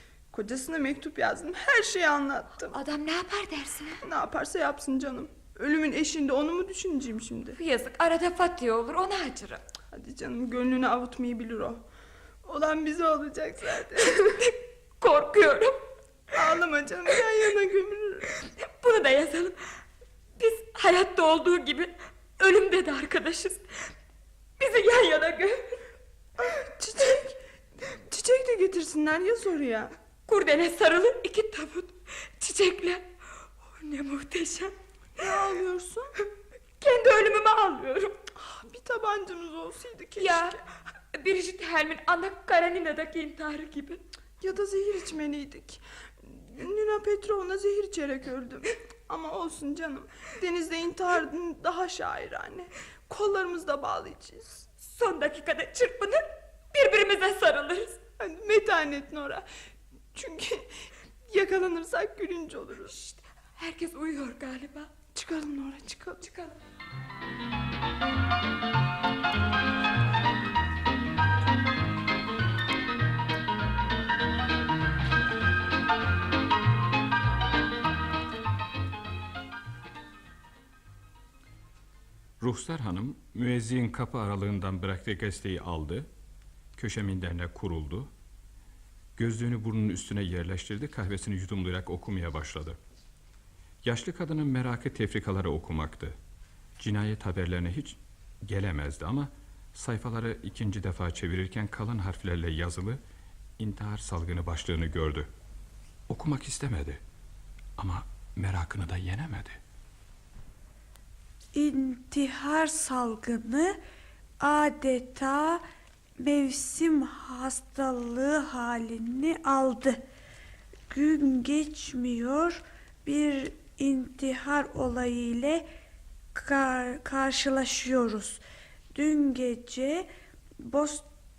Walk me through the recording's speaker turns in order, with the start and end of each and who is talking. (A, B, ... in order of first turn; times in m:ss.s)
0:00.3-0:02.8 A
0:02.7-0:04.0 B
0:04.0-0:07.6 A
0:07.6-0:09.6 B
0:09.9-0:11.8 A
0:12.4-0:14.2 A
0:14.3-0:15.8 B
0:16.3-0:18.3 A
0:18.6-0:19.6 B
0:20.4-0:23.6 B
0:24.6-0:25.8 B
0:26.4-0:27.4 A
0:28.1-0:29.9 A
0:30.3-0:33.0 B
0:33.7-0:34.7 B
0:35.2-0:36.1 A
0:36.8-0:38.2 B
0:38.4-0:40.6 A
0:40.2-0:40.6 B
0:41.1-0:44.0 B
0:44.4-0:54.6 A
0:54.8-0:58.0 B
0:58.2-0:59.4 A
1:00.2-1:00.7 A
1:01.3-1:02.9 A
1:02.9-1:04.9 B
1:05.1-1:06.2 A
1:06.2-1:06.6 B
1:22.4-1:26.1 C
1:26.8-1:28.1 C
1:29.2-1:32.8 C
1:33.8-1:36.2 C
1:36.8-1:43.0 C
1:43.6-1:45.3 C
1:46.1-1:47.0 C
1:47.8-1:49.6 C
1:51.5-1:53.8 D
1:54.4-1:55.6 D
1:56.2-2:00.0 D
2:00.9-2:05.7 D
2:06.4-2:08.4 D
2:08.9-2:10.1 D
2:10.6-2:11.1 D